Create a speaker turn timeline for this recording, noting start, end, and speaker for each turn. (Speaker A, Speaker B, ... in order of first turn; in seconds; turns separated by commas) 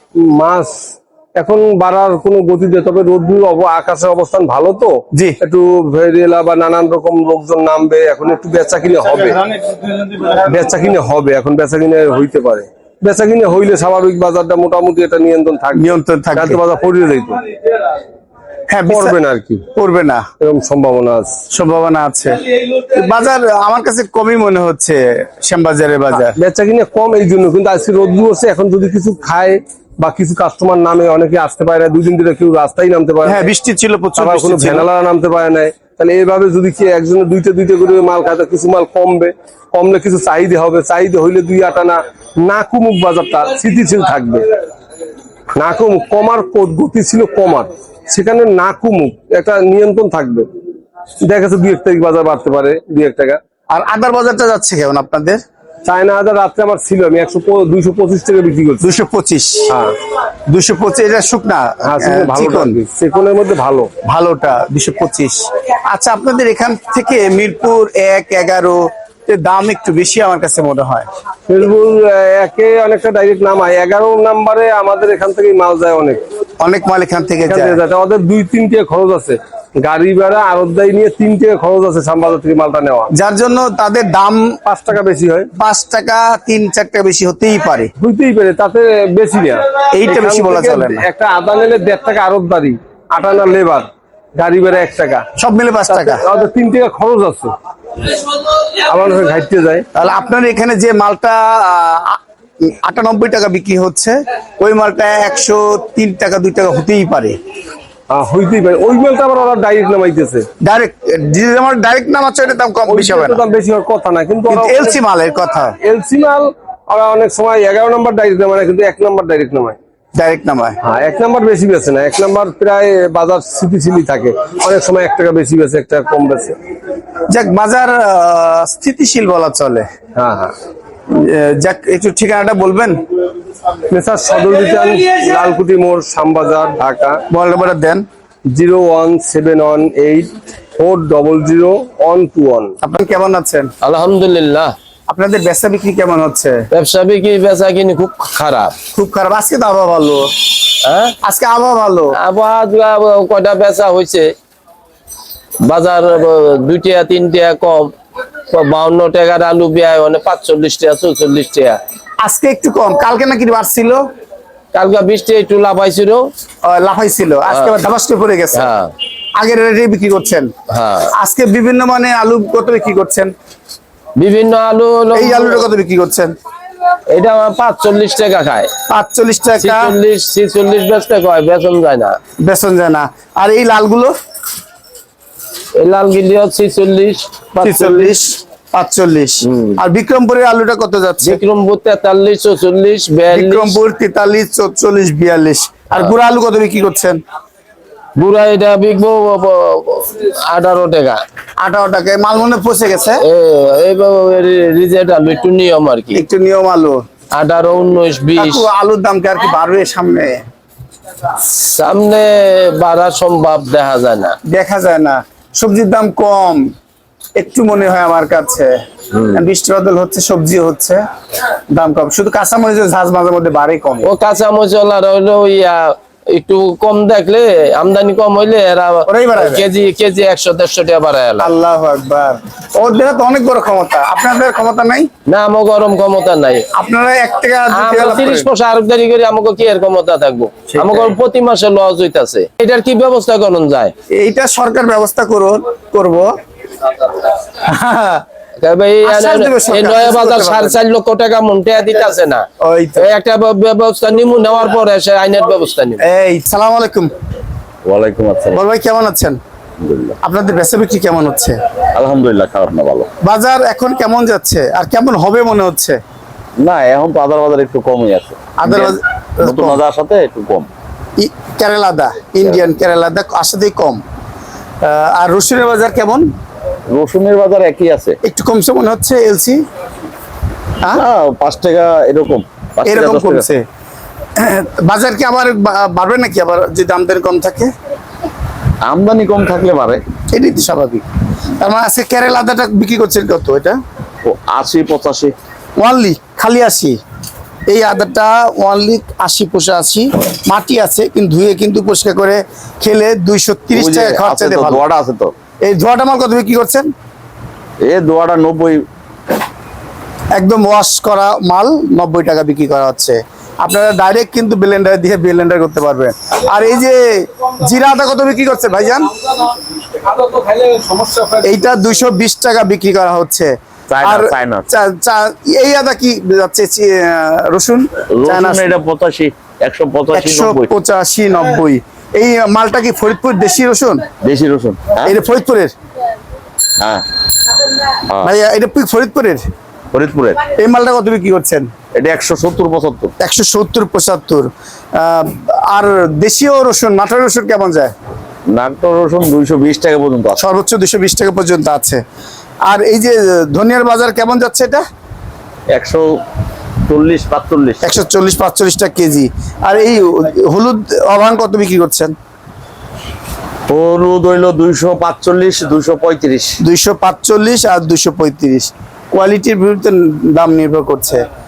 Speaker A: 0.2-9.4, Speaker B: 9.7-9.9, Speaker A: 10.3-17.4, Speaker B: 15.7-16.6, Speaker B: 18.7-19.2, Speaker A: 18.9-19.6, Speaker B: 19.7-20.2, Speaker A: 20.4-21.4, Speaker B: 21.5-26.4, Speaker A: 26.3-33.5, Speaker B: 33.2-34.9, Speaker A: 34.2-44.5, Speaker A: 45.5-50.5, Speaker A: 51.2-53.4, Speaker B: 53.7-55.4, Speaker A: 55.8-58.9, Speaker B: 58.8-59.7, Speaker A: 59.7-60.0, Speaker B: 60.5-62.8, Speaker A: 61.8-63.9, Speaker B: 64.0-71.0, Speaker A: 71.5-76.2, Speaker B: 76.6-77.8, Speaker A: 77.5-83.1, Speaker B: 83.1-84.6, Speaker A: 84.7-85.5, Speaker B: 85.5-87.9, Speaker A: 88.0-95.2, Speaker B: 89.9-91.1, Speaker B: 95.3-96.2, Speaker A: 95.9-97.5, Speaker A: 98.7-99.8, Speaker B: 99.9-107.4, Speaker A: 108.1-110.5, Speaker B: 110.6-113.4, Speaker A: 112.9-115.0, Speaker B: 114.5-115.7, Speaker A: 115.8-119.8, Speaker B: 120.1-120.8, Speaker A: 120.8-126.5, Speaker B: 127.3-129.8, Speaker A: 130.2-130.5, Speaker B: 131.1-133.0, Speaker A: 133.9-137.2, Speaker B: 137.3-138.0, Speaker A: 138.5-142.7, Speaker B: 142.8-143.7, Speaker C: 143.8-144.7, Speaker B: 145.1-146.6, Speaker C: 146.7-148.8, Speaker B: 148.9-150.3, Speaker C: 150.8-151.2, Speaker B: 151.2-152.1, Speaker C: 152.1-154.3, Speaker C: 155.6-157.9, Speaker C: 158.5-161.8, Speaker B: 162.2-164.0, Speaker C: 164.7-166.3, Speaker B: 166.6-168.7, Speaker C: 168.5-168.9, Speaker B: 169.4-170.5, Speaker C: 170.7-171.1, Speaker B: 171.1-173.3, Speaker C: 174.2-175.7, Speaker B: 175.1-176.3, Speaker C: 177.1-178.7, Speaker B: 178.9-179.9, Speaker C: 179.6-182.2, Speaker B: 182.4-184.1, Speaker C: 185.8-188.2, Speaker B: 187.6-191.4, Speaker C: 189.4-189.7, Speaker C: 191.2-193.8, Speaker B: 193.3-197.2, Speaker C: 198.2-201.2, Speaker B: 201.6-203.2, Speaker C: 203.2-206.2, Speaker B: 206.1-207.0, Speaker C: 207.3-208.7, Speaker B: 208.3-210.4, Speaker C: 211.4-214.3, Speaker B: 214.5-216.7, Speaker B: 217.3-218.7, Speaker B: 219.3-221.0, Speaker B: 221.7-224.1, Speaker C: 224.0-231.5, Speaker B: 229.1-229.7, Speaker B: 231.4-235.1, Speaker C: 235.3-236.7, Speaker B: 236.7-238.5, Speaker C: 237.7-243.9, Speaker B: 240.7-241.1, Speaker B: 244.1-246.3, Speaker B: 247.5-248.2, Speaker C: 248.6-252.4, Speaker B: 249.0-250.8, Speaker B: 252.6-253.1, Speaker C: 253.0-256.0, Speaker B: 256.0-257.1, Speaker D: 257.8-258.6, Speaker B: 258.5-259.4, Speaker D: 259.8-260.1, Speaker B: 260.2-261.6, Speaker D: 261.9-263.1, Speaker B: 263.2-266.0, Speaker D: 266.6-270.7, Speaker B: 268.6-269.8, Speaker B: 271.2-274.0, Speaker B: 274.8-276.2, Speaker D: 276.9-278.2, Speaker B: 278.2-279.6, Speaker D: 280.9-283.4, Speaker B: 282.8-283.6, Speaker B: 284.4-287.7, Speaker D: 288.8-290.0, Speaker B: 290.3-291.0, Speaker B: 291.6-293.8, Speaker D: 294.2-295.3, Speaker B: 295.8-297.0, Speaker B: 297.7-304.8, Speaker D: 303.7-305.3, Speaker B: 305.6-306.9, Speaker D: 307.8-308.8, Speaker B: 310.3-319.1, Speaker A: 319.9-321.6, Speaker B: 321.4-328.8, Speaker D: 323.9-324.6, Speaker D: 328.1-330.7, Speaker B: 330.1-334.1, Speaker D: 334.2-335.1, Speaker B: 335.0-335.7, Speaker D: 336.8-337.1, Speaker B: 338.2-339.4, Speaker D: 339.9-340.4, Speaker B: 340.5-341.7, Speaker D: 341.9-343.1, Speaker B: 343.2-347.9, Speaker D: 348.5-350.4, Speaker B: 350.4-352.0, Speaker B: 352.6-354.8, Speaker D: 355.7-356.1, Speaker D: 356.8-357.9, Speaker B: 357.8-362.1, Speaker D: 363.7-366.6, Speaker B: 366.6-371.2